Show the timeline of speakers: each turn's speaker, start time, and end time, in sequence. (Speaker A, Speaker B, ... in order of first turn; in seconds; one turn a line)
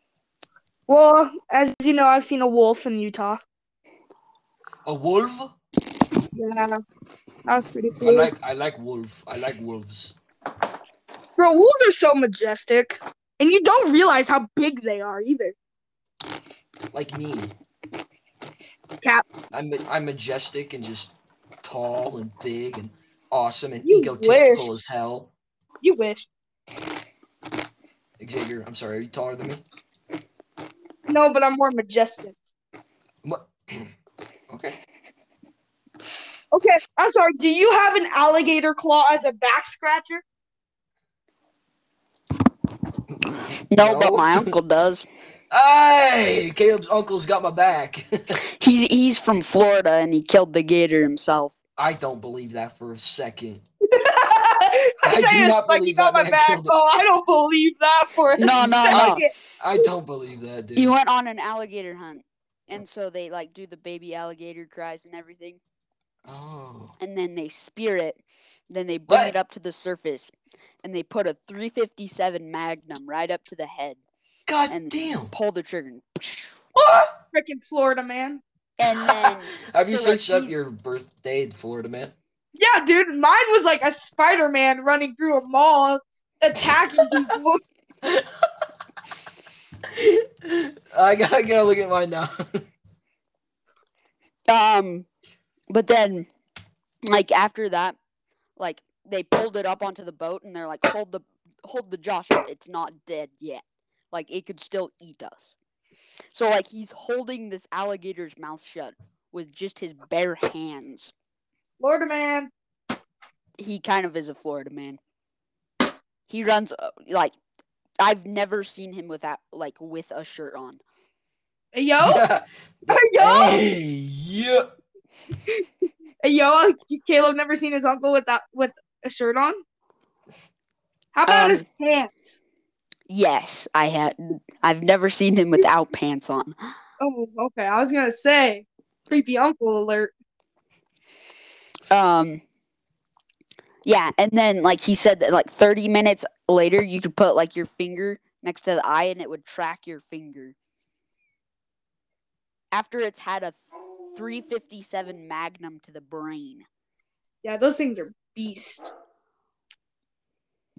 Speaker A: 0.9-3.4
Speaker B: 4.8-5.5
Speaker A: 6.3-6.8
Speaker A: 7.5-8.3
Speaker B: 8.0-10.2
Speaker A: 11.4-15.5
Speaker B: 16.9-17.5
Speaker B: 19.5-25.3
Speaker A: 23.8-24.8
Speaker A: 25.8-26.2
Speaker B: 28.2-29.6
Speaker A: 31.1-32.3
Speaker B: 33.2-33.9
Speaker B: 34.5-34.8
Speaker A: 36.5-40.2
Speaker B: 43.2-44.5
Speaker C: 43.7-45.0
Speaker B: 45.5-48.4
Speaker C: 48.4-51.5
Speaker B: 51.8-53.6
Speaker A: 53.9-59.8
Speaker B: 55.0-56.7
Speaker C: 58.4-59.2
Speaker B: 58.9-60.9
Speaker C: 60.8-65.6
Speaker B: 66.2-66.9
Speaker C: 67.0-68.2
Speaker C: 68.7-74.0
Speaker B: 69.1-69.3
Speaker B: 74.5-75.3
Speaker C: 74.7-76.6
Speaker B: 76.7-77.1
Speaker A: 77.3-78.4
Speaker C: 78.8-80.6
Speaker B: 79.0-82.1
Speaker A: 82.5-87.6
Speaker B: 87.0-87.3
Speaker B: 88.0-88.4
Speaker B: 89.9-92.7
Speaker C: 94.5-95.0
Speaker C: 95.7-96.3
Speaker C: 97.0-98.0
Speaker C: 98.6-105.5
Speaker C: 106.3-111.1
Speaker A: 111.8-112.5
Speaker C: 113.6-115.0
Speaker C: 116.3-117.3
Speaker C: 118.0-120.8
Speaker A: 121.7-122.2
Speaker B: 122.0-124.7
Speaker A: 122.9-123.7
Speaker A: 126.2-129.6
Speaker A: 131.1-132.4
Speaker C: 131.3-131.6
Speaker C: 133.1-136.6
Speaker A: 137.0-140.1
Speaker C: 141.9-142.4
Speaker C: 143.8-150.5
Speaker C: 152.7-153.6
Speaker C: 154.1-156.7
Speaker A: 157.4-158.9